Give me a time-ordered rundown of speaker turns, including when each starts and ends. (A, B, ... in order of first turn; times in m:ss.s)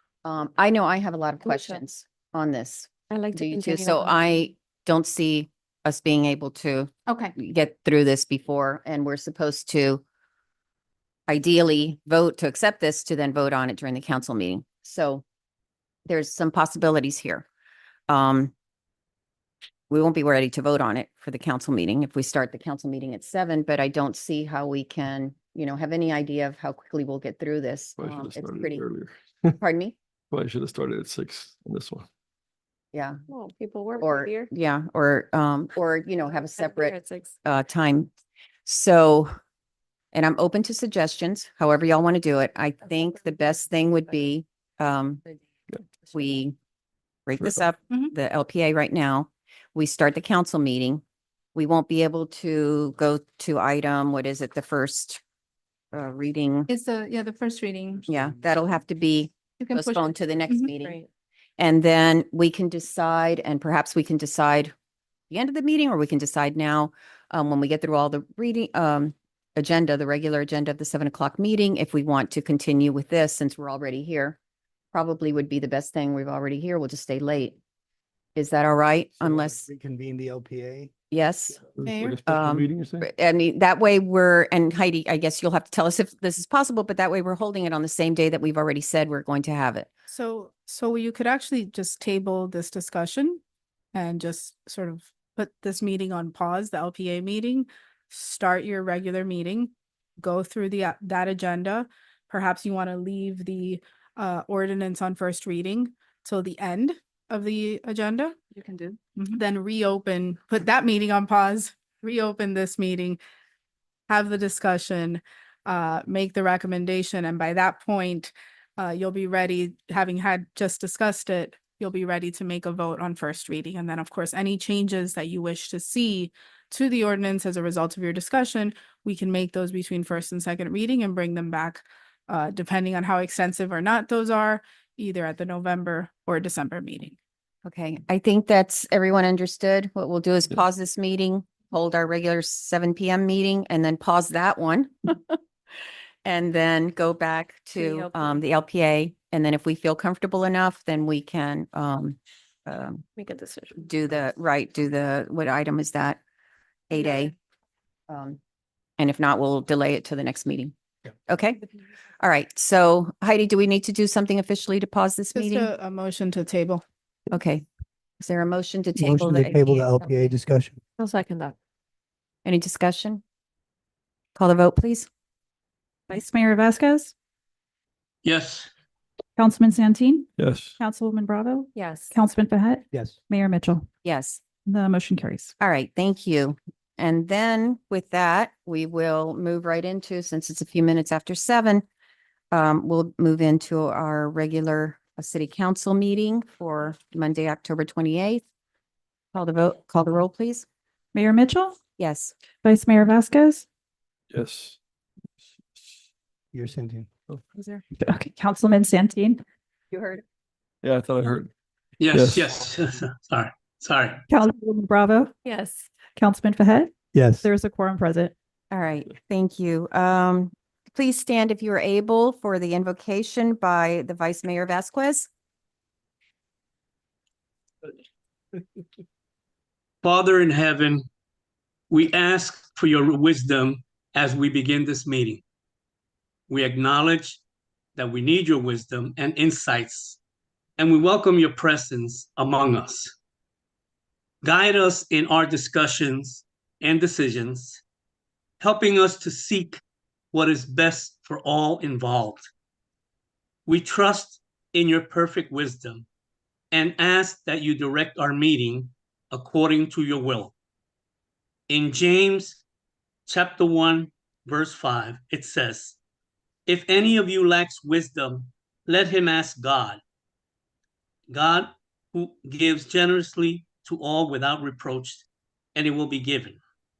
0:00.2-0:10.0 A
0:03.1-0:03.6 B
0:07.1-0:07.3 C
0:11.3-0:15.2 A
0:16.1-0:17.4 A
0:18.1-0:18.5 A
0:19.9-0:28.8 A
0:28.0-0:29.6 D
0:29.6-0:30.0 A
0:30.3-0:32.1 D
0:32.9-0:33.2 A
0:33.3-0:34.5 B
0:34.0-0:38.1 A
0:36.7-0:37.3 B
0:38.6-0:39.3 A
0:40.1-0:45.2 A
0:46.1-0:46.5 A
0:47.3-0:51.0 A
0:51.5-0:55.2 A
0:55.9-0:56.7 A
0:56.7-0:58.0 C
0:58.0-0:58.4 E
0:58.1-1:01.0 A
0:59.6-1:00.7 C
1:01.6-1:04.7 A
1:05.3-1:14.4 A
1:14.9-1:17.6 A
1:18.4-1:19.6 A
1:19.2-1:20.9 E
1:21.1-1:21.6 A
1:21.7-1:23.1 D
1:21.8-1:22.1 C
1:22.2-1:29.9 A
1:30.1-1:33.4 C
1:33.9-1:48.4 C
1:49.2-1:53.2 C
1:54.1-2:17.2 C
2:17.6-2:25.4 A
2:26.2-2:33.0 A
2:27.8-2:28.1 B
2:33.2-2:33.8 B
2:33.8-2:36.2 A
2:36.9-2:37.3 A
2:38.1-2:38.4 A
2:39.0-2:40.7 A
2:41.3-2:41.6 A
2:42.2-2:45.7 A
2:45.3-2:46.8 C
2:47.3-2:47.6 A
2:48.2-2:49.9 A
2:49.0-2:50.8 E
2:51.0-2:51.5 B
2:52.4-2:53.2 A
2:54.3-2:55.1 A
2:56.1-2:57.1 F
2:58.2-2:58.7 G
2:59.4-3:03.9 F
3:00.4-3:00.8 D
3:04.0-3:04.4 A
3:04.6-3:05.5 F
3:05.6-3:11.8 A
3:12.5-3:18.4 A
3:19.3-3:20.6 A
3:21.1-3:21.8 F
3:22.0-3:22.3 A
3:22.6-3:23.6 F
3:24.3-3:24.8 D
3:25.4-3:26.0 D
3:26.5-3:27.1 E
3:27.6-3:29.4 F
3:29.9-3:30.2 A
3:30.8-3:31.5 D
3:32.0-3:34.2 G
3:32.1-3:32.7 D
3:34.3-3:35.3 F
3:35.5-3:35.8 B
3:36.1-3:38.3 F
3:37.1-3:37.4 E
3:38.7-3:45.3 A
3:50.0-3:51.0 G
3:51.9-3:55.4 G
3:56.5-3:57.4 G
3:58.0-4:00.2 G
4:00.8-4:03.1 G
4:04.4-4:07.8 G
4:08.6-4:09.8 G
4:10.3-4:12.4 G
4:13.7-4:16.0 G
4:16.7-4:20.5 G
4:21.7-4:22.6 G
4:23.3-4:26.0 G
4:26.7-4:30.0 G
4:31.3-4:35.2 G
4:35.7-4:36.6 G